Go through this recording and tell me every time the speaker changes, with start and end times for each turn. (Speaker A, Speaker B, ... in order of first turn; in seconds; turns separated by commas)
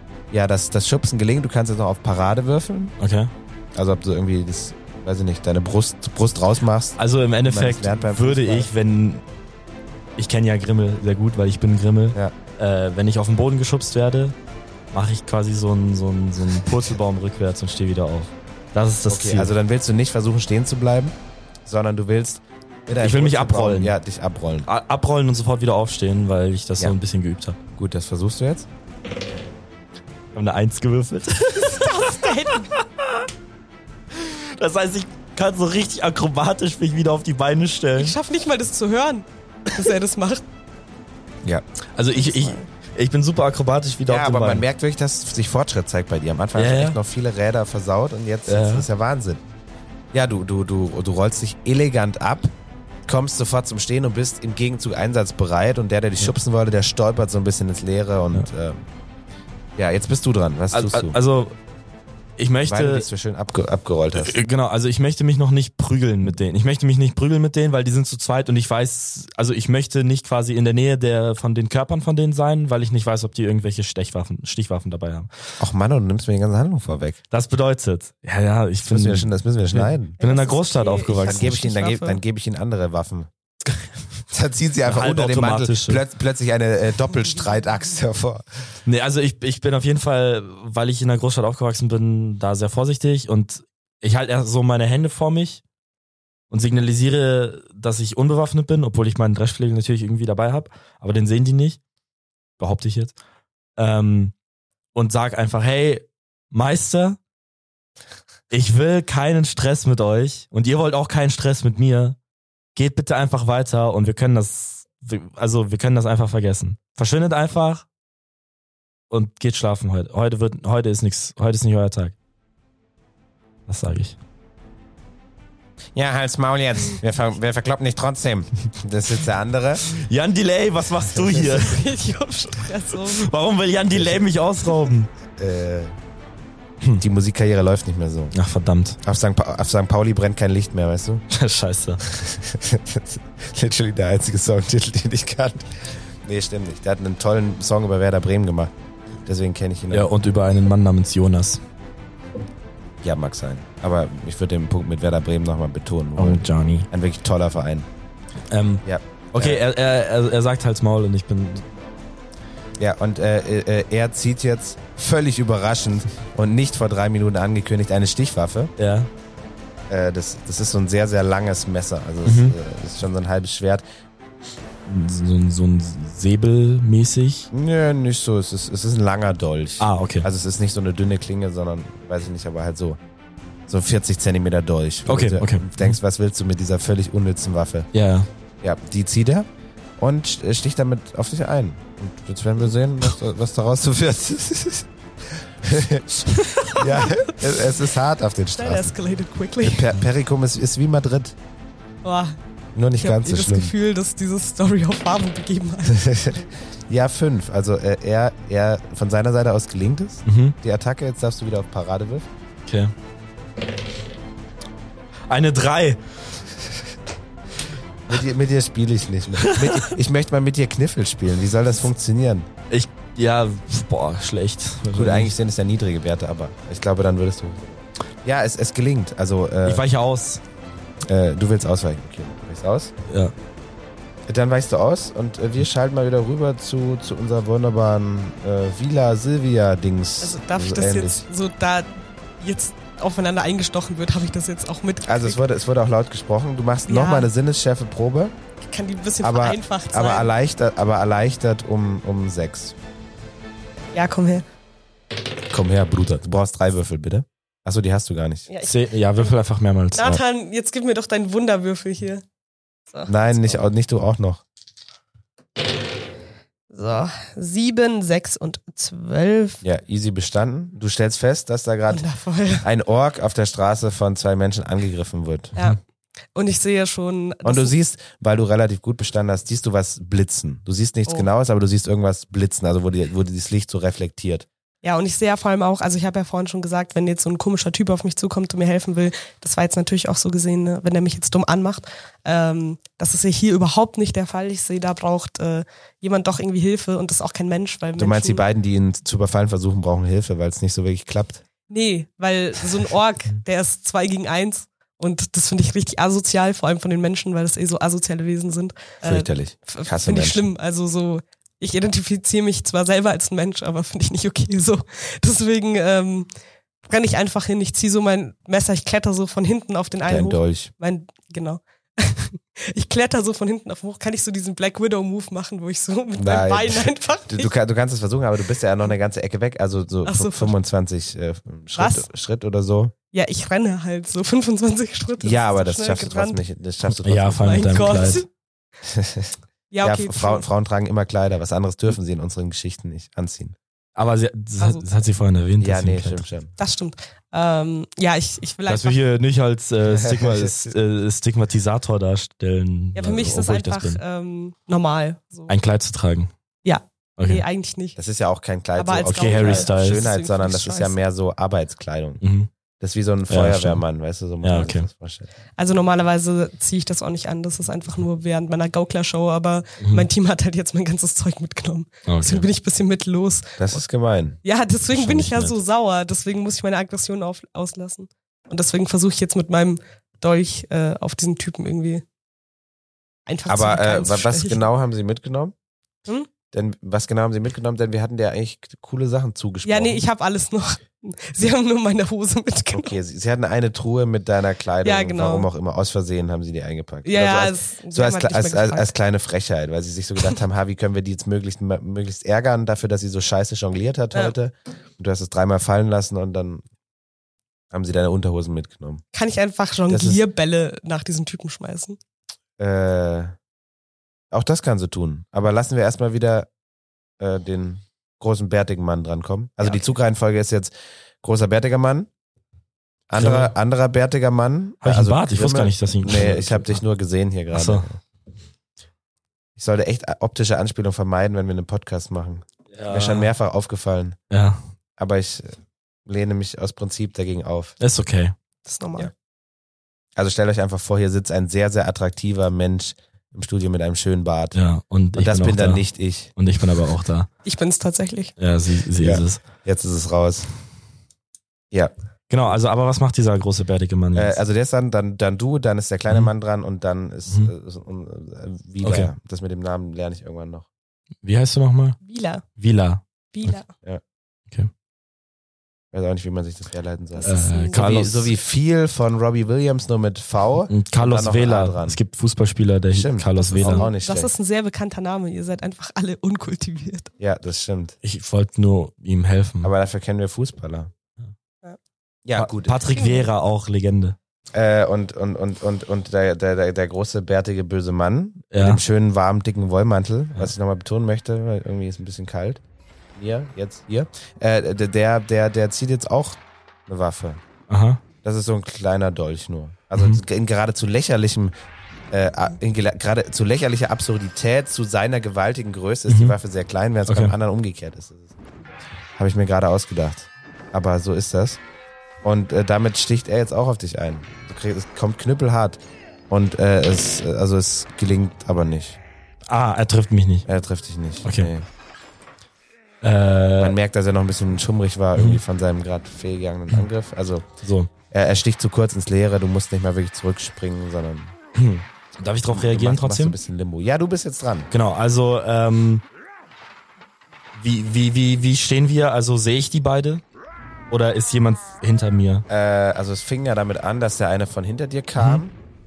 Speaker A: 0.3-3.0, Speaker B: 3.0-3.3, Speaker A: 3.8-8.7, Speaker B: 7.0-9.2, Speaker B: 10.2-14.4, Speaker B: 14.9-19.5, Speaker A: 19.1-24.7, Speaker B: 23.0-23.9, Speaker B: 24.7-27.6, Speaker A: 27.8-28.7, Speaker B: 30.4-33.3, Speaker C: 31.6-32.7, Speaker B: 34.1-38.2, Speaker C: 38.0-40.4, Speaker B: 42.0-44.7, Speaker C: 42.1-42.7, Speaker A: 44.1-49.4, Speaker B: 46.6-47.0, Speaker B: 48.5-48.9, Speaker A: 50.1-52.5, Speaker A: 53.1-58.8, Speaker A: 59.8-61.2, Speaker B: 60.7-61.6, Speaker B: 62.4-63.1, Speaker A: 62.7-64.4, Speaker B: 64.2-75.3, Speaker A: 75.6-77.2, Speaker B: 77.3-81.5, Speaker A: 78.9-80.2, Speaker C: 80.2-82.2, Speaker A: 81.2-83.3, Speaker A: 84.3-88.5, Speaker B: 84.8-86.0, Speaker B: 88.9-95.6, Speaker B: 96.5-101.8, Speaker B: 102.6-103.2, Speaker B: 103.8-104.3, Speaker B: 105.0-107.2, Speaker B: 108.5-112.2, Speaker B: 112.8-117.9, Speaker B: 119.1-122.2, Speaker B: 123.7-124.2, Speaker A: 126.0-129.8, Speaker B: 129.9-131.8, Speaker C: 131.4-133.3, Speaker B: 133.1-135.1, Speaker A: 133.9-134.2, Speaker A: 135.4-135.9, Speaker A: 137.0-138.3, Speaker B: 138.3-139.0, Speaker A: 139.0-141.2, Speaker B: 141.3-142.0, Speaker A: 142.0-148.7, Speaker A: 149.3-150.1, Speaker B: 149.9-151.6, Speaker A: 153.0-157.9, Speaker B: 156.2-156.9, Speaker B: 158.5-161.7, Speaker A: 158.8-159.6, Speaker A: 162.8-168.7, Speaker B: 168.8-169.1, Speaker A: 169.9-173.8, Speaker B: 172.2-172.6, Speaker B: 174.8-177.5, Speaker A: 177.5-183.0, Speaker B: 179.8-180.3, Speaker A: 183.7-187.9, Speaker B: 185.1-186.0, Speaker B: 187.9-188.3, Speaker A: 188.6-189.5, Speaker A: 190.0-198.9, Speaker C: 196.3-197.5, Speaker C: 198.6-199.9, Speaker A: 199.6-201.4, Speaker C: 202.0-202.4, Speaker A: 202.8-203.7, Speaker C: 203.0-206.5, Speaker A: 205.9-212.3, Speaker B: 210.2-210.6, Speaker B: 212.7-212.9, Speaker B: 215.3-216.0, Speaker A: 218.1-222.5, Speaker B: 219.4-219.9, Speaker B: 222.7-225.3, Speaker A: 224.9-229.8, Speaker B: 229.7-230.4, Speaker A: 231.1-232.9, Speaker A: 234.3-241.2, Speaker C: 240.2-245.4, Speaker A: 245.1-248.3, Speaker C: 246.9-247.3, Speaker C: 248.6-250.3, Speaker A: 249.2-252.8, Speaker C: 253.9-254.4, Speaker A: 255.5-258.5, Speaker C: 258.5-259.3, Speaker B: 258.6-260.1, Speaker C: 259.9-262.2, Speaker C: 262.9-263.6, Speaker A: 263.1-264.4, Speaker C: 266.7-269.6, Speaker A: 269.6-272.0, Speaker C: 271.9-272.7, Speaker A: 272.6-275.6, Speaker C: 276.4-277.7, Speaker A: 277.4-284.5, Speaker C: 284.8-298.4, Speaker A: 298.0-301.4, Speaker C: 301.7-316.3, Speaker A: 309.0-310.5, Speaker C: 316.9-327.6, Speaker A: 320.1-320.7, Speaker A: 326.2-332.9, Speaker C: 330.0-330.5, Speaker C: 331.8-332.1, Speaker C: 333.1-336.4, Speaker A: 335.2-338.2, Speaker B: 337.0-338.3, Speaker C: 337.4-338.3, Speaker A: 338.8-343.6, Speaker C: 339.7-340.4, Speaker B: 344.0-346.2, Speaker C: 344.6-344.9, Speaker A: 345.6-346.5, Speaker C: 346.6-349.0, Speaker B: 348.7-354.0, Speaker A: 349.9-350.8, Speaker C: 352.9-355.5, Speaker B: 355.5-356.3, Speaker C: 356.6-358.0, Speaker B: 357.2-357.4, Speaker A: 358.0-362.2, Speaker C: 358.8-361.0, Speaker B: 359.2-360.1, Speaker B: 362.2-362.5, Speaker A: 362.8-365.3, Speaker B: 363.3-363.8, Speaker B: 364.4-364.9, Speaker C: 365.6-373.6, Speaker B: 369.8-370.1, Speaker B: 372.1-372.4, Speaker A: 373.6-374.4, Speaker C: 374.4-382.0, Speaker B: 374.9-375.6, Speaker C: 383.3-384.6, Speaker A: 383.5-385.5, Speaker A: 386.5-390.0, Speaker C: 389.6-393.0, Speaker A: 392.7-406.6, Speaker C: 394.8-395.5, Speaker C: 397.1-398.9, Speaker A: 407.7-409.0, Speaker C: 409.1-412.0, Speaker A: 409.9-410.2, Speaker A: 412.6-413.4, Speaker A: 414.3-416.5, Speaker A: 417.2-422.1, Speaker C: 419.6-419.9, Speaker A: 423.1-428.0, Speaker B: 423.2-423.5, Speaker B: 424.8-426.8, Speaker B: 427.5-427.9, Speaker A: 429.6-434.2, Speaker B: 432.7-433.3, Speaker B: 434.3-434.6, Speaker A: 435.0-437.8, Speaker B: 437.8-438.4, Speaker C: 438.6-439.1, Speaker A: 440.2-444.6, Speaker B: 444.5-445.9, Speaker A: 445.1-446.3, Speaker B: 446.4-447.3, Speaker C: 447.4-448.4, Speaker B: 448.4-449.4, Speaker A: 449.0-450.5, Speaker B: 452.3-454.4, Speaker A: 454.1-460.7, Speaker B: 458.8-459.1, Speaker B: 461.2-462.0, Speaker C: 462.1-462.4, Speaker B: 462.6-463.6, Speaker C: 463.3-463.7, Speaker A: 465.9-472.0, Speaker C: 467.1-467.9, Speaker B: 467.2-468.3, Speaker B: 470.7-473.9, Speaker A: 472.9-474.3, Speaker C: 473.4-477.1, Speaker A: 477.2-478.0, Speaker B: 478.0-479.7, Speaker A: 479.6-480.9, Speaker A: 482.2-482.8, Speaker B: 482.4-484.2, Speaker C: 482.9-483.3, Speaker A: 484.5-492.6, Speaker B: 488.5-488.8, Speaker A: 493.1-497.4, Speaker B: 497.7-498.0, Speaker A: 498.2-501.5, Speaker B: 499.9-500.2, Speaker A: 502.1-508.3, Speaker B: 506.1-506.4, Speaker B: 507.1-507.3, Speaker A: 509.2-511.6, Speaker A: 512.2-519.0, Speaker B: 519.5-520.5, Speaker A: 520.5-521.7, Speaker B: 521.2-521.5, Speaker B: 523.0-523.8, Speaker A: 523.6-527.5, Speaker B: 525.2-525.4, Speaker B: 527.6-527.9, Speaker A: 528.1-531.3, Speaker B: 531.5-533.4, Speaker A: 532.5-534.7, Speaker B: 534.7-536.0, Speaker B: 537.5-540.2, Speaker B: 540.9-542.5, Speaker A: 542.5-545.5